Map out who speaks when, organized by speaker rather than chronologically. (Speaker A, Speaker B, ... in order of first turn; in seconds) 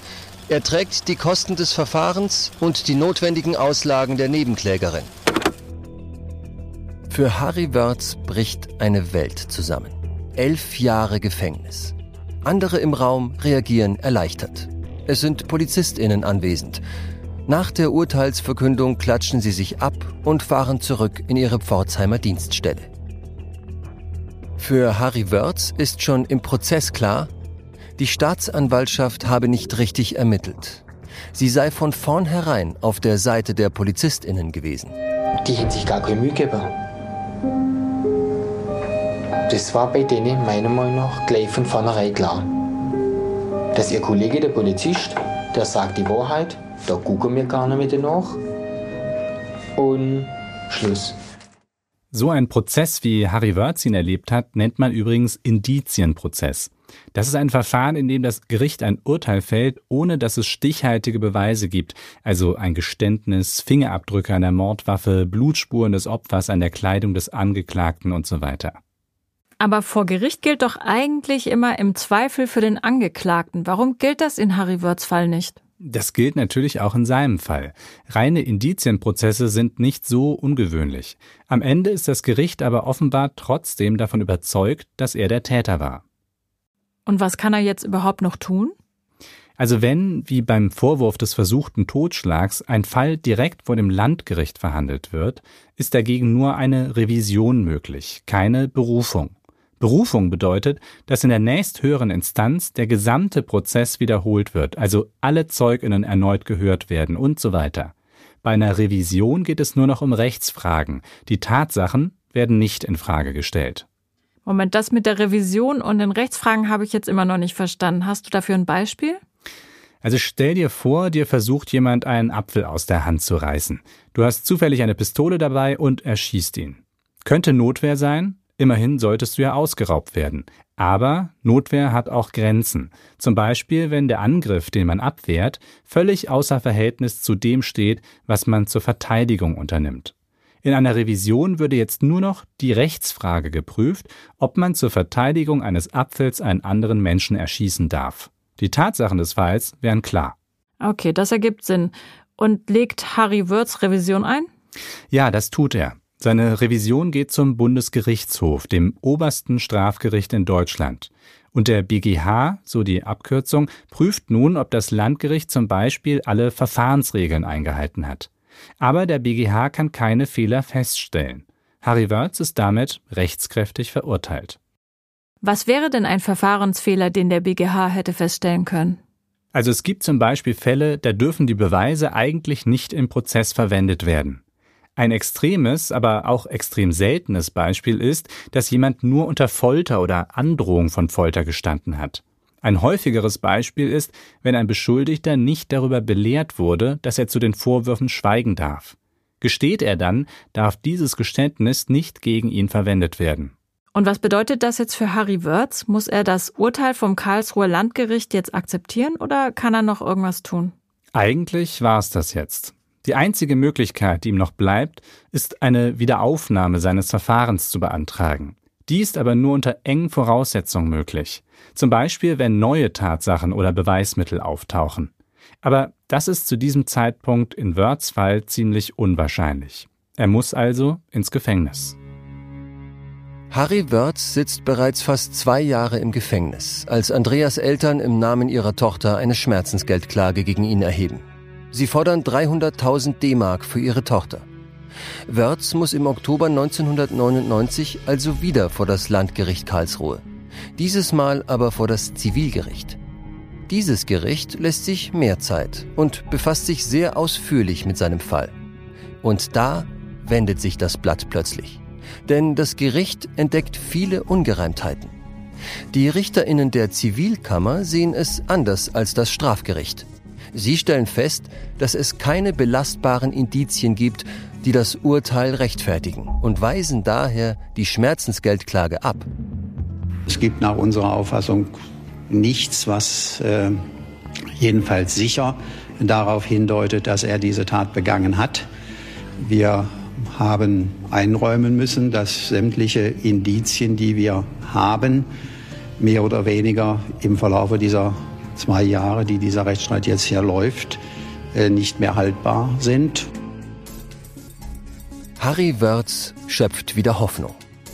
Speaker A: 0.5-5.1, 7.1-16.8, 17.4-22.9, 24.6-27.3, 28.0-35.0, 233.5-244.5, 245.3-250.2, 250.8-253.0, 253.7-258.5, 259.2-265.1, 265.9-279.3, 305.4-307.6
Speaker B: 35.4-36.8, 39.5-42.5, 43.7-48.4, 49.8-51.1
Speaker C: 52.1-68.8, 75.8-86.0, 89.6-107.9, 108.4-113.8, 120.0-150.3, 155.1-168.3, 168.8-174.6, 179.5-184.4, 185.0-203.5, 211.1-225.1, 225.6-231.9
Speaker D: 69.6-75.6, 87.0-88.7, 114.4-119.2, 150.8-154.5, 175.4-179.0, 203.9-210.7
Speaker E: 280.3-281.7, 282.3-283.8, 284.6-288.6, 289.4-295.3, 296.0-301.0, 301.5-303.3